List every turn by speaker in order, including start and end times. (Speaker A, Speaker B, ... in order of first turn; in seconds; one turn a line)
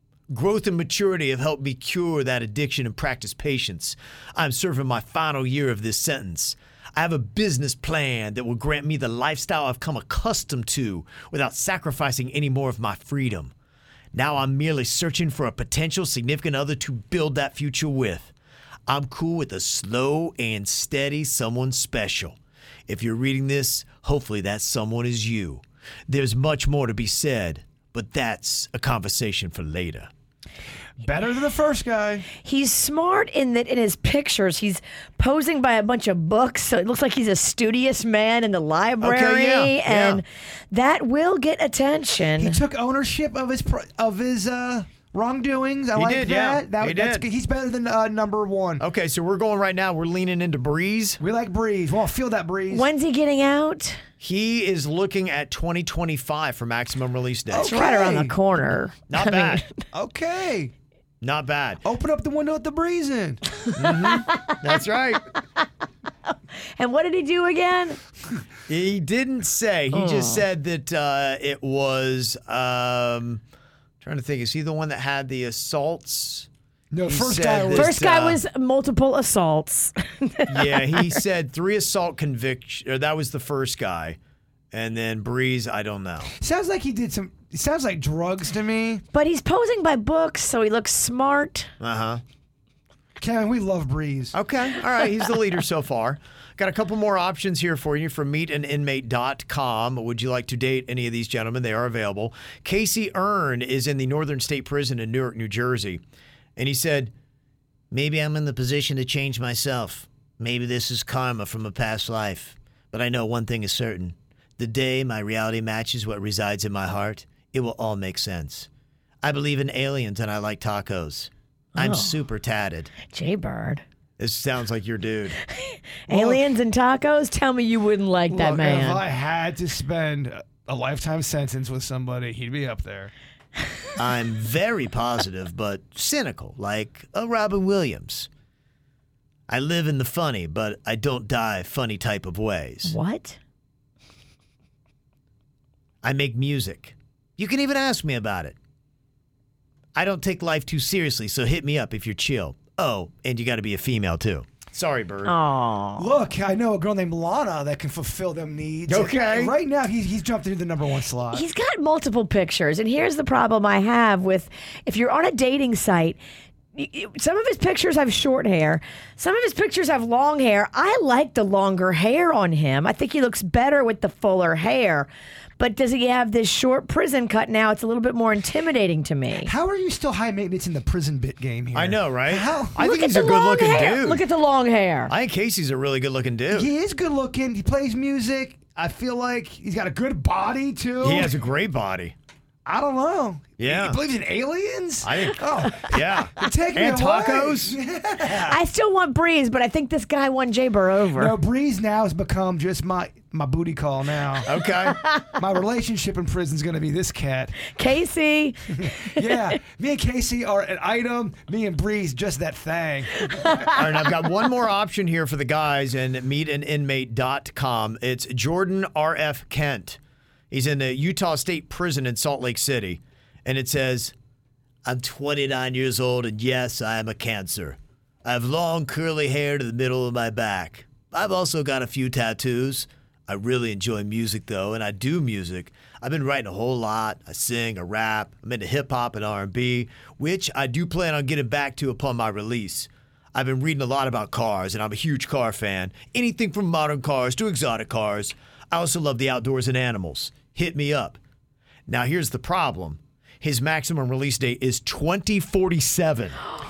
Speaker A: 0.3-13.5
Speaker A: 14.1-18.3
Speaker A: 18.9-22.4
Speaker A: 22.9-30.1
Speaker B: 31.0-32.3
Speaker C: 32.4-42.6
Speaker A: 39.0-40.2
Speaker B: 42.4-48.8
Speaker A: 46.0-47.2
Speaker A: 48.8-51.2
Speaker B: 51.2-52.9
Speaker C: 52.7-54.0
Speaker A: 54.2-57.8
Speaker B: 57.5-58.4
Speaker C: 57.6-59.7
Speaker A: 59.1-59.6
Speaker B: 59.9-60.7
Speaker A: 61.2-61.8
Speaker B: 61.8-63.4
Speaker A: 63.8-65.2
Speaker C: 64.0-64.4
Speaker C: 66.8-68.0
Speaker A: 68.7-73.4
Speaker C: 69.9-70.5
Speaker A: 74.0-76.5
Speaker B: 76.9-77.9
Speaker A: 77.1-78.4
Speaker C: 77.7-81.2
Speaker A: 80.5-84.2
Speaker A: 84.7-86.3
Speaker B: 86.4-89.0
Speaker C: 89.1-91.7
Speaker A: 91.8-92.2
Speaker B: 93.2-94.3
Speaker A: 94.3-106.0
Speaker A: 106.6-107.1
Speaker A: 107.9-118.7
Speaker A: 119.2-122.9
Speaker C: 121.8-122.2
Speaker C: 123.1-123.8
Speaker A: 124.2-125.4
Speaker C: 125.5-129.0
Speaker A: 126.1-126.4
Speaker B: 128.3-133.1
Speaker A: 134.0-138.3
Speaker A: 139.5-142.9
Speaker C: 142.8-143.4
Speaker A: 146.0-148.6
Speaker A: 150.0-155.3
Speaker C: 155.2-156.1
Speaker B: 156.0-161.4
Speaker A: 158.9-159.6
Speaker C: 161.3-166.2
Speaker C: 166.8-179.5
Speaker B: 179.4-182.9
Speaker A: 181.7-184.2
Speaker C: 182.8-185.1
Speaker A: 185.1-186.7
Speaker B: 186.5-191.4
Speaker A: 191.0-192.2
Speaker B: 192.7-198.6
Speaker A: 193.6-194.0
Speaker A: 195.0-197.8
Speaker C: 198.3-201.3
Speaker B: 201.1-204.5
Speaker A: 204.5-205.0
Speaker C: 204.9-205.3
Speaker B: 205.3-207.6
Speaker C: 207.7-209.3
Speaker B: 208.8-213.7
Speaker A: 213.7-220.0
Speaker A: 220.5-224.1
Speaker A: 224.9-251.2
Speaker A: 251.9-256.4